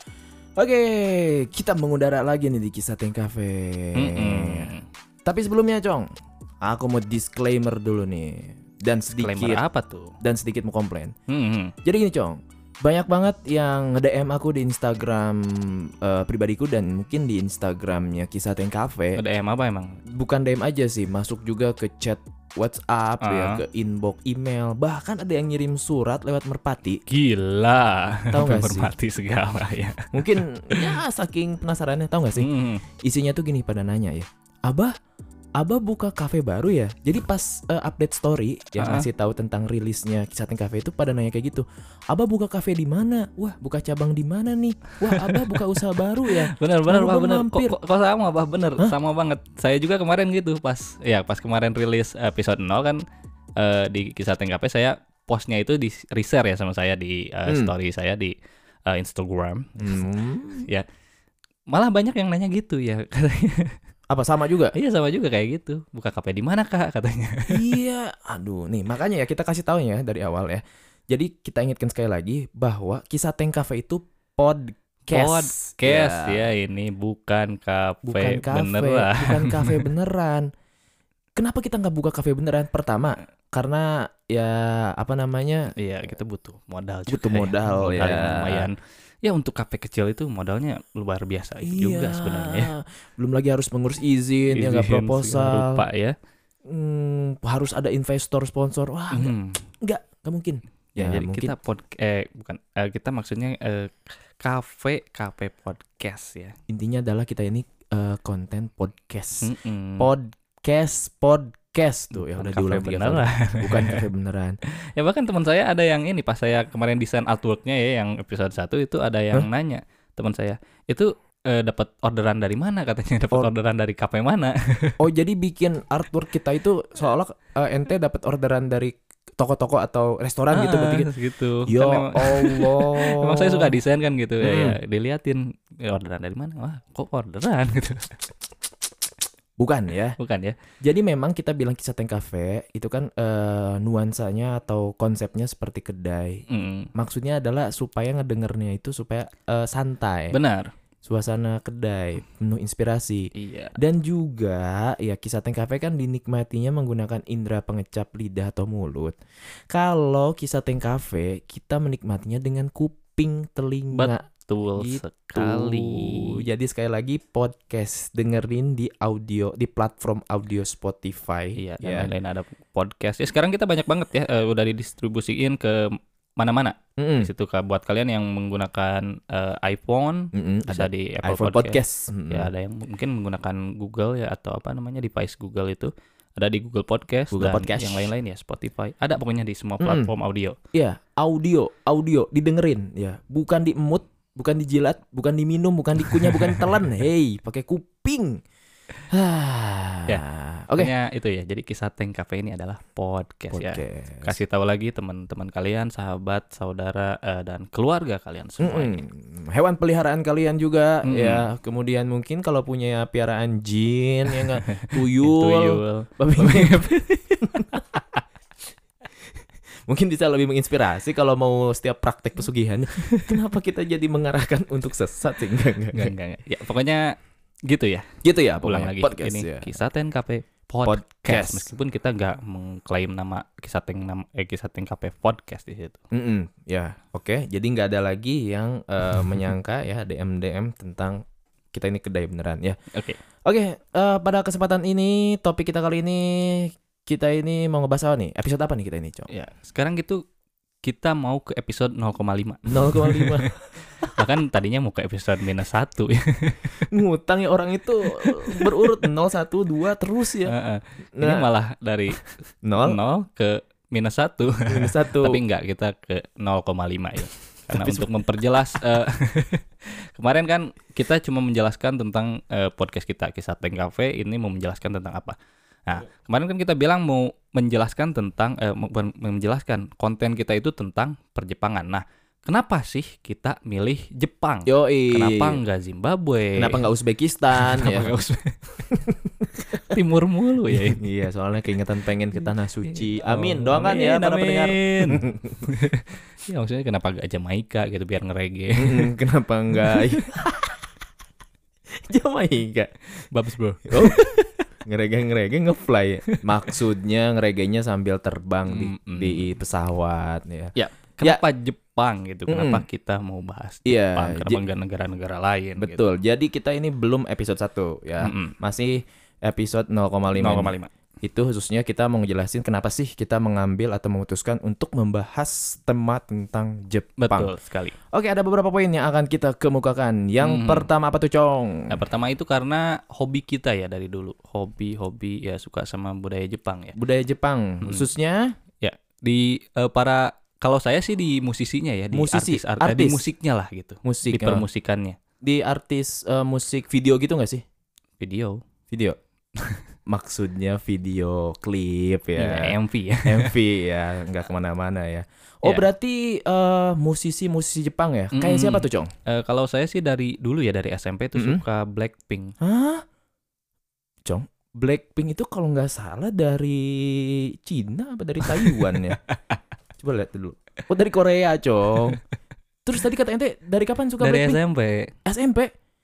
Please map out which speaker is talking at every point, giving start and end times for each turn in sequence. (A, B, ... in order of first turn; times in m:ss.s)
0:00.6-0:04.7 A
0:03.9-0:04.8 B
0:05.2-0:06.1 A
0:06.6-0:09.6 A
0:09.2-0:10.1 B
0:10.2-0:11.1 A
0:11.3-0:11.7 B
0:11.8-0:19.2 A
0:19.2-0:20.0 B
0:20.1-0:27.0 A
0:23.2-0:23.6 B
0:27.1-0:30.9 B
0:28.3-0:28.9 A
0:30.1-0:34.9 A
0:32.4-0:32.8 B
0:35.6-0:47.8 A
0:38.8-0:39.0 B
0:45.0-0:45.6 B
0:46.2-0:53.0 B
0:53.6-0:58.3 B
0:57.5-0:57.7 A
0:58.9-1:00.0 B
0:59.8-1:00.7 A
1:01.7-1:03.7 B
1:04.1-1:04.7 A
1:04.7-1:07.6 B
1:07.5-1:16.5 A
1:15.1-1:19.9 B
1:18.0-1:20.5 A
1:21.4-1:25.7 A
1:25.8-1:32.7 B
1:27.1-1:28.7 A
1:31.6-1:35.8 A
1:34.5-1:36.1 B
1:36.6-1:41.5 A
1:39.1-1:39.6 B
1:41.0-1:46.5 B
1:46.7-1:54.6 A
1:49.4-1:50.1 B
1:52.1-1:54.0 B
1:54.7-2:05.0 B
2:05.0-2:11.1 A
2:10.5-2:18.2 B
2:11.6-2:13.8 A
2:14.4-2:14.8 A
2:19.6-2:20.2 A
2:20.2-2:20.6 B
2:20.8-2:30.4 A
2:26.5-2:26.9 B
2:30.3-2:30.7 B
2:31.0-2:39.2 A
2:33.3-2:33.7 B
2:39.7-2:44.2 A
2:43.9-2:46.4 B
2:44.8-2:52.1 A
2:51.6-3:10.6 B
2:57.0-2:57.3 A
3:00.3-3:02.5 A
3:07.3-3:08.1 A
3:09.8-3:10.1 A
3:10.7-3:18.4 A
3:16.0-3:16.7 B
3:19.1-3:20.9 A
3:20.1-3:29.0 B
3:23.5-3:24.3 A
3:28.6-3:38.0 A
3:31.0-3:31.4 B
3:34.7-3:36.9 B
3:37.6-3:38.2 B
3:39.9-3:46.1 A
3:45.9-3:47.1 B
3:47.7-3:56.0 B
3:48.2-3:49.8 A
3:50.8-3:51.7 A
3:56.1-4:02.8 A
4:02.9-4:03.2 B
4:03.4-4:09.3 A
4:09.3-4:10.2 B
4:10.8-4:16.9 B
4:12.7-4:14.1 A
4:16.9-4:20.5 A
4:18.2-4:19.0 B
4:20.5-4:35.4 B
4:21.2-4:21.5 A
4:22.6-4:23.0 A
4:24.7-4:25.4 A
4:27.7-4:28.1 A
4:35.9-4:46.9 B
4:44.6-4:45.6 A
4:46.6-4:48.2 A
4:47.5-4:48.6 B
4:48.9-4:50.0 A
4:49.8-4:51.0 B
4:50.7-4:55.7 A
4:52.9-4:59.1 B
4:58.8-5:00.9 A
5:01.9-5:02.9 A
5:03.2-5:04.5 B
5:03.9-5:11.4 A
5:06.3-5:06.7 B
5:08.7-5:09.5 B
5:10.8-5:16.0 B
5:12.5-5:12.8 A
5:13.8-5:14.6 A
5:15.8-5:27.5 A
5:18.2-5:18.5 B
5:20.3-5:20.9 B
5:27.2-5:28.0 B
5:28.1-5:32.0 A
5:30.4-5:30.9 B
5:31.9-5:36.9 B
5:36.9-5:38.5 A
5:38.8-5:45.2 B
5:42.1-5:43.2 A
5:44.0-5:44.6 A
5:45.4-5:47.6 A
5:48.2-5:48.6 B
5:48.9-5:49.2 A
5:50.1-5:59.1 A
5:52.4-5:53.5 B
5:58.3-6:02.5 B
6:01.4-6:01.6 A
6:02.6-6:03.0 A
6:04.2-6:09.2 A
6:08.4-6:09.4 B
6:10.0-6:12.2 A
6:12.8-6:14.6 A
6:14.2-6:15.1 B
6:15.2-6:15.7 A